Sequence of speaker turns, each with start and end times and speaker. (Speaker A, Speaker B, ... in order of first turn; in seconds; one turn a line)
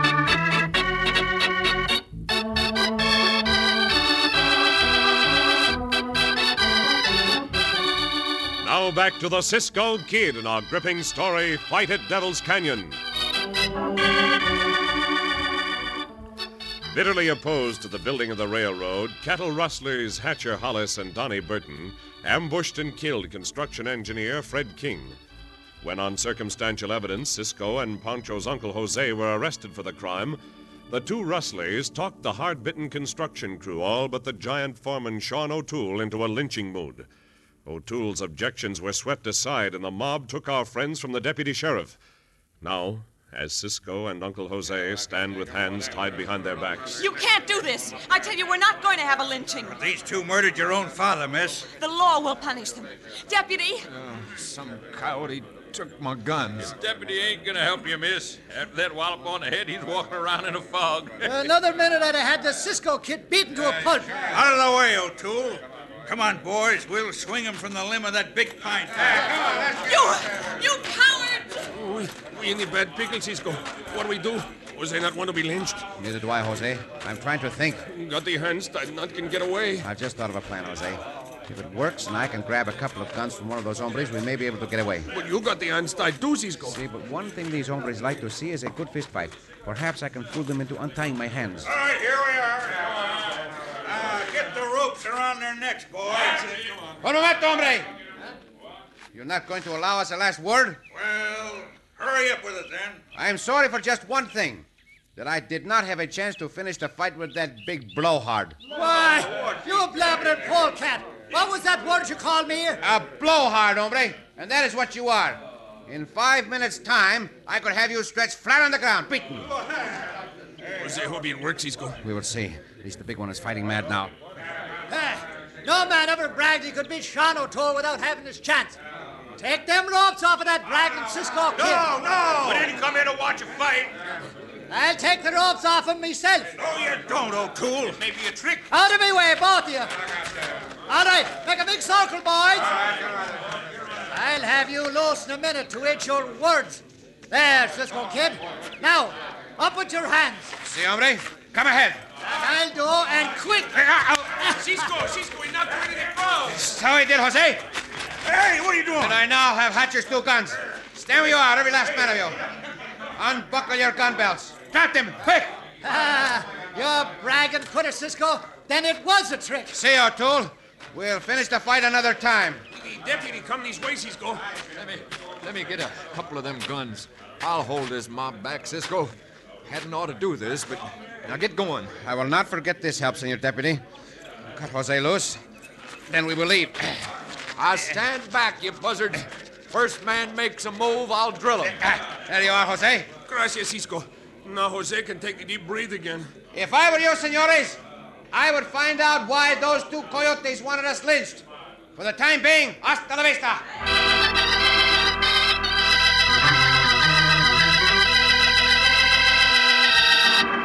Speaker A: 8.6-13.0
Speaker A: 16.9-25.2
Speaker A: 25.8-37.1
Speaker A: 37.6-42.0
Speaker A: 42.6-47.0
Speaker B: 47.0-49.8
Speaker C: 49.6-51.7
Speaker B: 51.8-53.9
Speaker D: 53.9-56.7
Speaker E: 56.6-61.5
Speaker F: 61.2-64.2
Speaker C: 64.2-69.7
Speaker B: 69.8-71.6
Speaker G: 71.7-75.8
Speaker H: 76.0-77.8
Speaker G: 77.9-79.9
Speaker H: 79.8-85.1
Speaker G: 85.1-86.8
Speaker H: 86.7-91.7
Speaker C: 91.6-96.7
Speaker H: 97.0-97.9
Speaker H: 99.1-100.8
Speaker C: 100.9-103.0
Speaker H: 103.1-108.6
Speaker F: 108.7-112.8
Speaker H: 112.8-119.5
Speaker G: 120.7-122.0
Speaker H: 122.0-124.1
Speaker F: 124.9-128.8
Speaker F: 129.3-131.9
Speaker C: 131.6-133.9
Speaker F: 134.7-136.5
Speaker C: 136.6-138.6
Speaker F: 138.7-140.0
Speaker F: 140.8-142.8
Speaker F: 144.1-150.5
Speaker H: 150.6-152.0
Speaker F: 152.3-154.8
Speaker G: 154.4-156.6
Speaker H: 156.5-157.7
Speaker C: 158.2-159.2
Speaker H: 159.0-162.4
Speaker H: 163.1-165.6
Speaker F: 165.8-169.8
Speaker H: 169.7-172.6
Speaker G: 172.7-174.4
Speaker D: 174.7-181.9
Speaker H: 182.0-183.8
Speaker H: 184.4-185.4
Speaker H: 186.1-187.0
Speaker D: 187.6-191.8
Speaker H: 191.8-193.1
Speaker G: 193.2-196.3
Speaker H: 196.5-197.8
Speaker H: 198.3-201.4
Speaker H: 201.9-203.6